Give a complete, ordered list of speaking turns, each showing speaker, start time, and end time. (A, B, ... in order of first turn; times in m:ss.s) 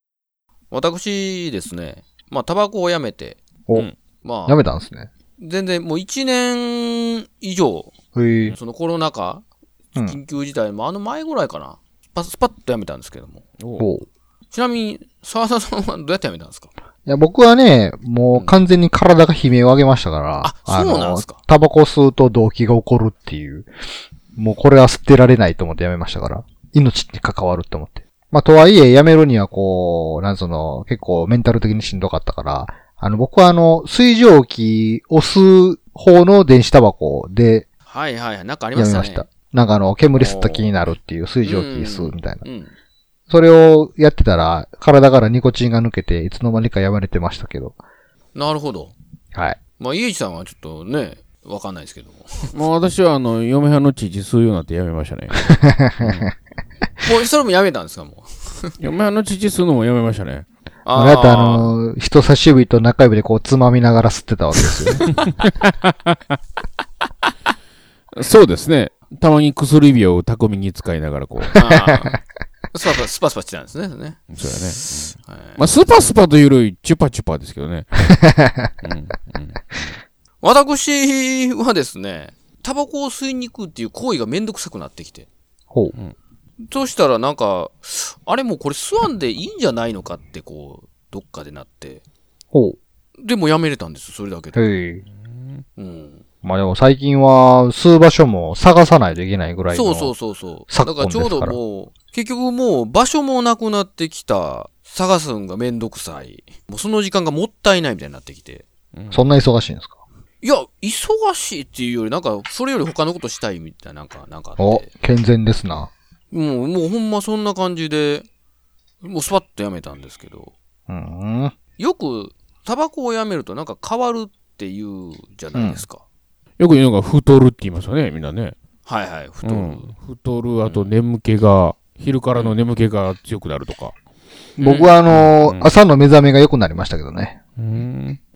0:00.7-0:03.4 A
0:04.2-0:04.6 A
0:04.5-0:05.1 B
0:05.4-0:07.9 A
0:08.1-0:08.6 B
0:08.5-0:09.4 A
0:10.0-0:13.4 A
0:13.6-0:13.9 C
0:13.8-0:14.1 B
0:14.5-0:16.7 A
0:17.0-0:23.7 B
0:18.3-0:18.6 A
0:20.4-0:21.4 A
0:24.4-0:37.7 B
0:37.9-0:39.3 A
0:38.8-0:42.4 B
0:40.1-0:40.8 A
0:41.4-0:42.7 A
0:43.3-0:47.8 B
0:48.4-0:49.0 A
0:49.3-0:49.6 B
0:49.8-0:52.5 A
0:52.5-0:56.3 C
0:55.6-0:56.2 B
0:57.0-0:58.8 A
0:58.8-1:00.5 C
1:00.8-1:01.8 A
1:00.9-1:05.1 B
1:05.1-1:06.2 C
1:08.1-1:11.6 C
1:11.6-1:12.2 A
1:12.7-1:14.3 A
1:14.3-1:18.1 C
1:15.2-1:15.6 A
1:18.8-1:20.0 C
1:20.4-1:25.3 A
1:26.6-1:32.0 A
1:32.5-1:32.8 B
1:33.2-1:34.7 A
1:34.5-1:35.0 B
1:35.1-1:35.6 C
1:35.8-1:36.2 A
1:36.4-1:40.1 B
1:39.7-1:48.7 A
1:40.7-1:41.6 B
1:48.9-1:49.2 C
1:49.1-1:50.0 B
1:50.4-1:54.9 A
1:54.6-1:55.9 B
1:56.3-1:58.3 A
1:59.0-2:00.5 A
2:00.9-2:01.6 B
2:01.8-2:06.0 A
2:05.5-2:05.8 B
2:06.6-2:08.5 C
2:08.8-2:09.9 A
2:09.4-2:13.9 C
2:10.6-2:10.9 A
2:14.6-2:15.0 A
2:14.6-2:17.4 B
2:15.1-2:15.8 C
2:17.6-2:18.2 C